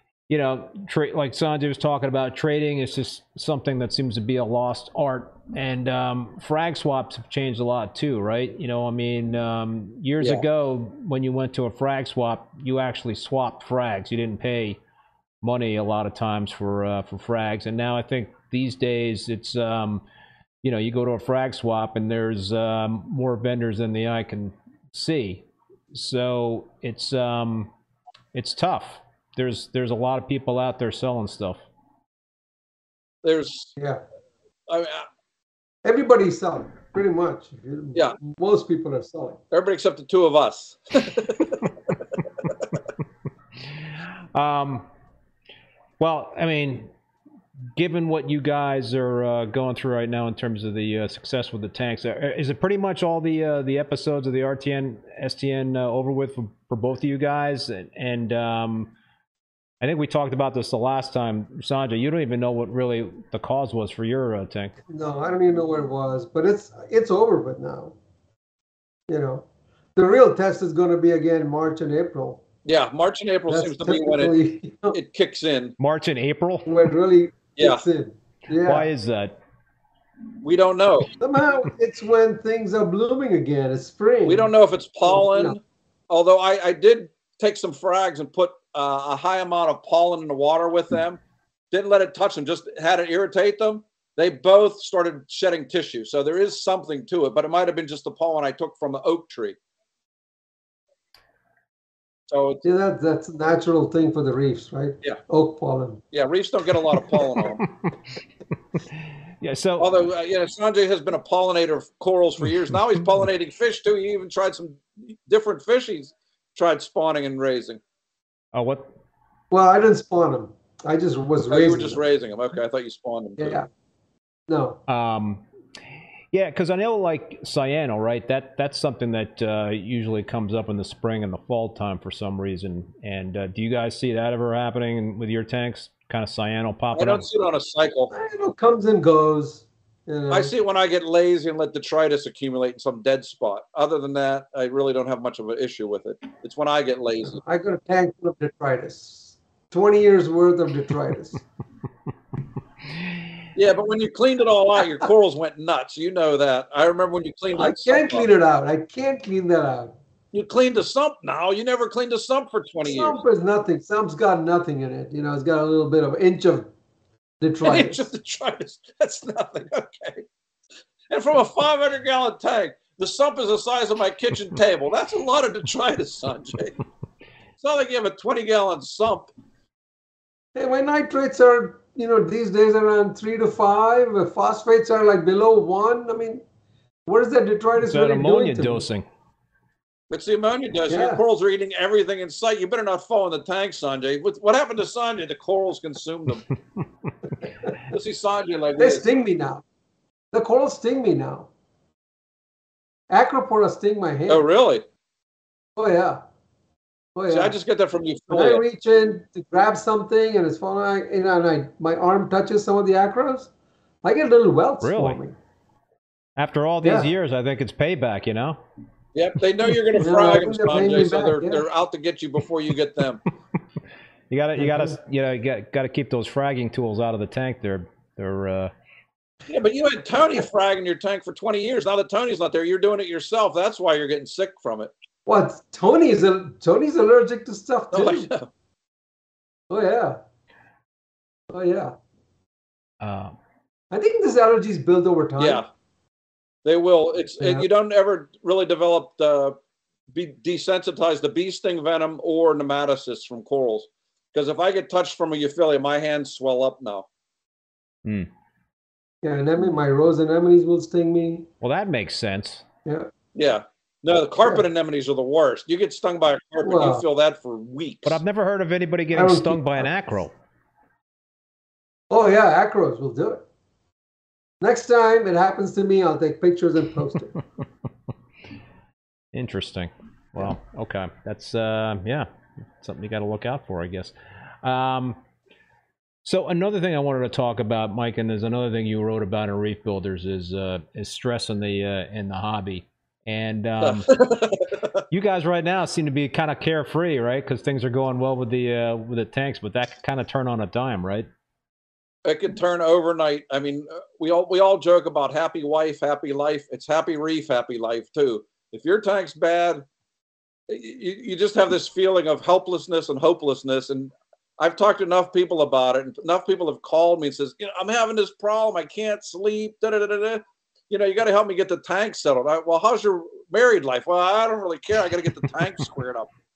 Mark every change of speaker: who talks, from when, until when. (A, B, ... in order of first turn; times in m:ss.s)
0:00.3-0:14.8 A
0:15.4-0:20.0 A
0:20.6-0:27.7 A
0:28.3-0:31.6 A
0:33.2-0:33.7 B
0:34.7-0:35.1 B
0:35.8-0:39.4 C
0:39.5-0:41.9 B
0:44.3-0:44.8 A
0:46.0-0:46.9 A
0:47.8-0:58.9 A
0:59.8-1:04.7 A
1:04.9-1:07.9 C
1:09.1-1:09.4 C
1:10.0-1:12.4 C
1:12.6-1:14.3 B
1:13.5-1:15.0 C
1:14.9-1:15.8 B
1:15.8-1:16.6 A
1:16.6-1:18.9 C
1:17.6-1:17.8 B
1:18.6-1:19.4 A
1:20.4-1:21.1 B
1:21.2-1:24.5 C
1:24.2-1:39.6 B
1:25.0-1:25.6 C
1:42.3-1:42.6 B
1:42.6-1:46.0 C
1:46.1-1:47.6 B
1:49.4-1:49.9 A
1:49.8-1:57.8 B
1:58.5-1:58.9 A
1:59.5-2:02.0 C
2:01.5-2:03.6 B
2:03.4-2:03.7 C
2:04.5-2:04.8 C
2:04.9-2:05.4 A
2:06.3-2:17.3 A
2:16.9-2:18.1 B
2:18.1-2:20.5 C
2:20.3-2:27.4 B
2:27.3-2:31.4 C
2:33.5-2:38.2 B
2:37.5-2:39.9 C
2:40.3-2:43.2 B
2:42.8-2:46.7 C
2:47.4-2:48.1 C
2:47.6-2:50.2 B
2:51.1-2:56.7 B
2:57.6-2:59.3 B
3:00.5-3:06.4 C
3:07.0-3:08.8 C
3:07.8-3:09.0 A
3:10.1-3:16.4 B
3:10.9-3:11.2 C
3:17.9-3:19.0 B
3:18.8-3:19.6 C
3:20.3-3:21.5 C
3:23.1-3:24.4 C
3:24.3-3:24.8 B
3:25.8-3:26.2 C
3:27.1-3:27.6 C
3:27.3-3:28.6 B
3:28.3-3:33.5 C
3:34.0-3:35.4 C
3:34.8-3:35.2 A
3:36.4-3:38.6 A
3:36.8-3:37.1 C
3:39.1-3:43.2 B
3:40.0-3:41.6 C
3:44.3-3:48.7 A
3:44.6-3:45.0 C
3:49.5-3:54.9 B
3:55.2-3:58.3 C
3:57.9-3:58.5 B
3:59.7-4:00.2 C
4:01.5-4:02.0 C
4:03.0-4:03.3 A
4:03.9-4:05.6 C
4:05.4-4:05.7 B
4:06.6-4:09.6 B
4:07.4-4:07.6 C
4:10.1-4:17.1 B
4:19.2-4:21.5 C
4:21.6-4:22.6 A
4:23.3-4:28.2 B
4:26.6-4:27.0 C
4:28.0-4:30.3 A
4:29.1-4:29.9 C
4:32.1-4:33.4 C
4:34.6-4:37.4 C
4:39.3-4:42.3 A
4:42.8-4:45.2 A
4:46.2-4:54.1 A
4:53.8-4:55.0 B
4:55.1-5:01.3 A
5:02.2-5:09.8 B
5:10.7-5:26.3 B